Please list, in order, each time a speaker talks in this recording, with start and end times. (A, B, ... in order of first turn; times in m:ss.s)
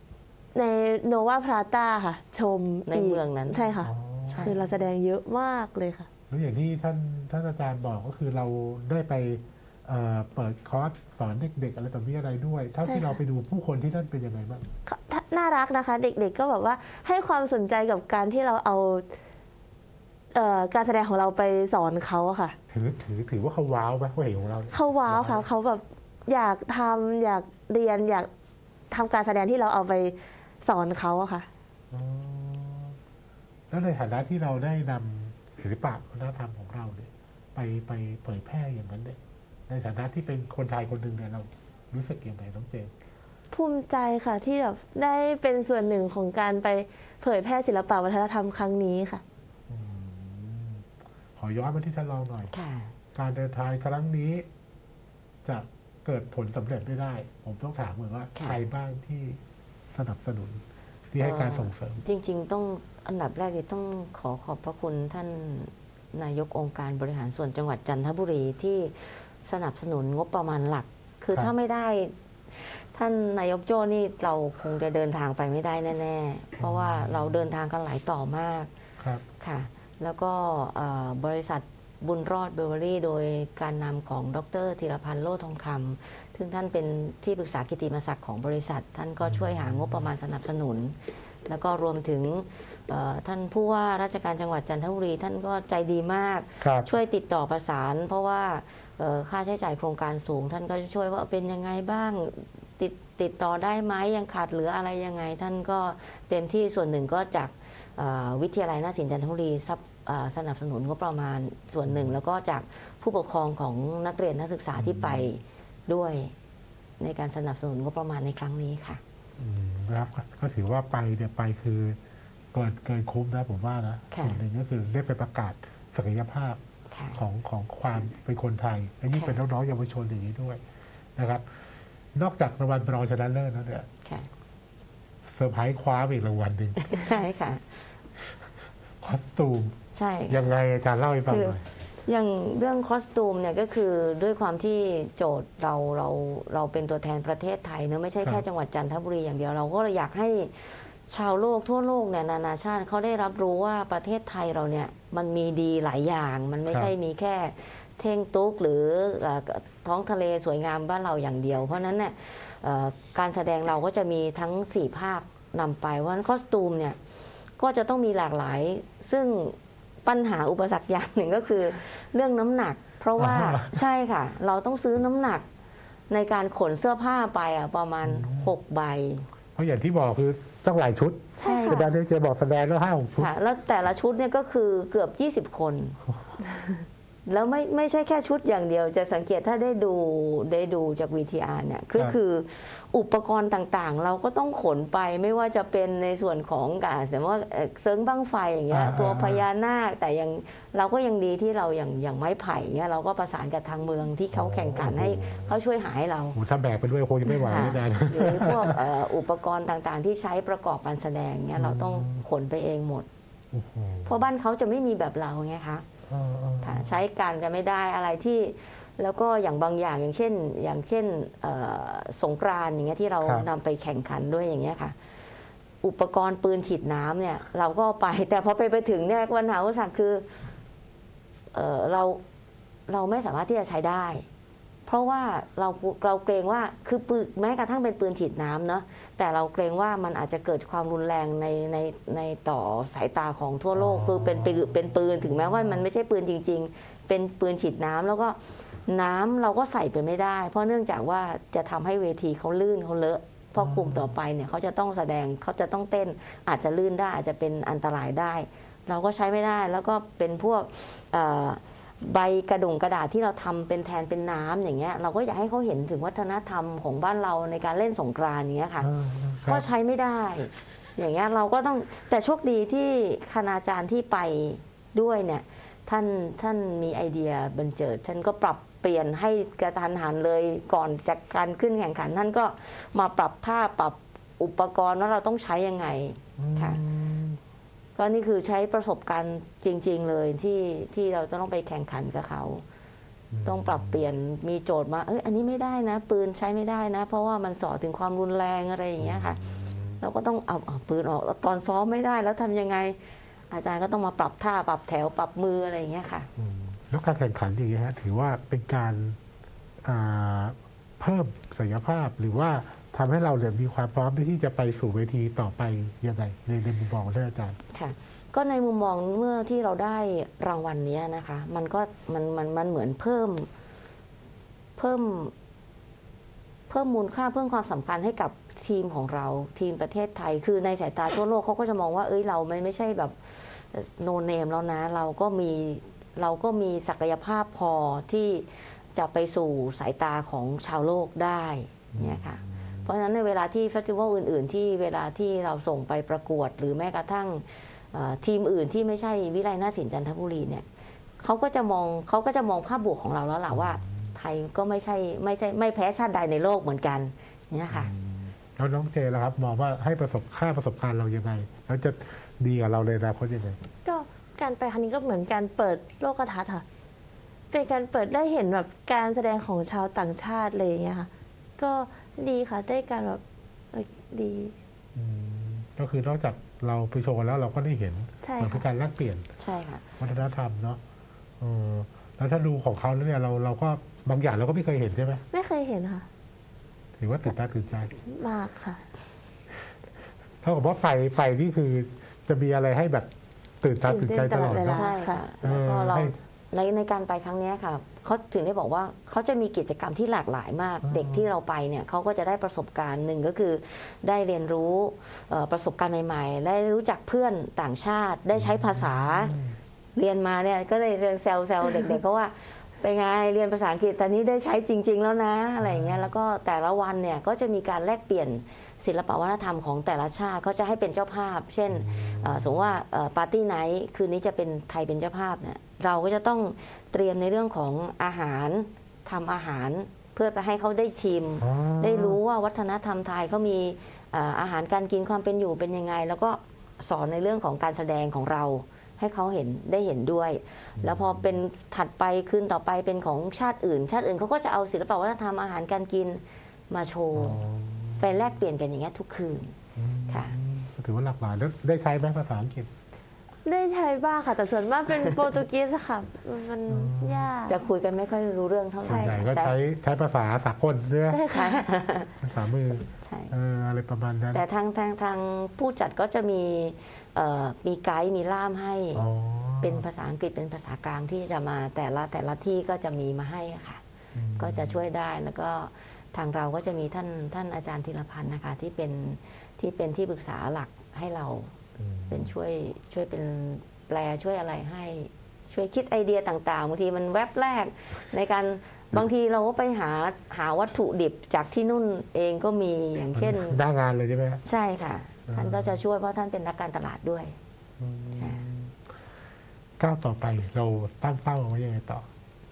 0:00.5-0:03.9 A
0:02.9-0:04.6 B
0:03.8-0:04.9 C
0:04.4-0:06.1 A
0:06.3-0:14.6 C
0:12.9-0:13.1 A
0:14.8-0:19.0 A
0:20.3-0:22.5 A
0:22.7-0:25.5 C
0:24.7-0:28.3 A
0:28.9-0:31.5 A
0:31.9-0:33.0 C
0:33.7-0:42.9 C
0:43.5-0:49.2 A
0:49.7-0:52.5 C
0:52.5-0:52.9 B
0:53.1-0:54.4 C
0:55.4-0:59.4 C
0:59.9-1:02.0 C
1:01.2-1:18.7 B
1:16.6-1:17.4 C
1:19.0-1:19.2 C
1:19.4-1:56.3 B
1:29.2-1:30.1 C
1:36.6-1:36.9 C
1:51.8-1:52.2 C
1:54.8-1:55.3 C
1:57.0-1:59.0 B
1:59.4-2:02.0 C
2:02.5-2:06.6 C
2:04.1-2:04.4 B
2:06.9-2:07.2 B
2:07.1-2:10.6 C
2:11.2-2:11.4 C
2:12.1-2:13.9 C
2:15.3-2:17.1 C
2:16.8-2:17.6 B
2:19.0-2:19.8 C
2:19.9-2:20.4 B
2:20.3-2:21.6 C
2:21.3-2:47.0 B
2:36.7-2:36.9 C
2:47.6-2:55.4 B
2:53.2-2:53.8 C
2:56.1-2:59.2 B
2:58.0-2:58.5 C
2:59.6-3:03.3 C
3:01.4-3:01.8 B
3:01.4-3:01.9 A
3:03.2-3:06.0 B
3:06.0-3:06.4 C
3:07.2-3:26.4 B
3:18.7-3:19.4 C
3:24.3-3:25.6 C
3:26.3-3:28.8 C
3:27.4-3:33.1 B
3:31.6-3:32.2 C
3:33.5-3:34.2 C
3:34.0-3:35.8 B
3:36.1-3:37.0 C
3:36.6-3:45.0 B
3:45.8-3:50.3 B
3:51.5-3:52.2 B
3:52.9-3:54.3 B
3:54.9-4:28.9 B
4:03.7-4:05.8 C
4:13.6-4:14.1 C
4:28.8-4:29.7 C
4:29.4-4:46.8 B
4:46.4-4:47.4 C
4:48.0-4:52.6 B
4:53.3-4:54.0 C
4:53.4-4:59.4 B
4:59.0-5:00.0 C
5:00.0-5:03.0 B
5:03.5-5:06.3 B
5:06.4-5:09.2 C
5:09.8-5:17.6 C
5:17.7-5:23.5 B
5:24.8-5:25.3 B
5:26.7-5:50.6 B
5:41.9-5:42.8 C
5:51.2-5:57.9 B
5:53.5-5:54.1 C
5:57.7-6:03.6 C
6:03.8-6:06.6 A
6:07.5-6:13.2 A
6:13.7-6:14.5 A
6:14.9-6:19.3 C
6:18.2-6:18.6 A
6:19.4-6:19.8 B
6:20.0-6:20.8 C
6:21.4-6:25.2 C
6:25.3-6:26.1 A
6:27.0-6:27.9 C
6:28.1-6:28.8 A
6:30.4-6:33.1 C
6:33.6-6:36.1 C
6:33.8-6:35.2 A
6:34.6-6:49.3 B
6:40.8-6:41.3 C
6:48.4-6:49.6 C
6:49.9-7:27.4 B
6:55.6-6:56.1 C
7:01.7-7:02.8 C
7:11.4-7:12.2 C
7:20.8-7:21.4 C
7:27.2-7:28.3 C
7:28.0-7:29.6 B
7:29.8-7:32.7 C
7:30.1-7:30.3 B
7:33.4-7:37.6 A
7:36.7-7:37.3 C
7:37.4-7:39.6 B
7:38.8-7:41.3 C
7:41.1-7:41.6 A
7:41.3-7:42.2 B
7:42.2-7:44.4 C
7:43.0-7:43.3 B
7:44.3-7:49.0 B
7:48.9-7:49.8 C
7:49.6-7:53.8 B
7:54.1-7:54.8 C
7:54.4-8:01.5 B
8:01.8-8:02.3 C
8:02.1-8:13.6 B
8:13.1-8:14.4 C
8:14.4-8:17.4 B
8:15.3-8:15.8 C
8:17.8-8:18.8 C
8:18.2-8:18.4 B
8:19.8-8:22.1 C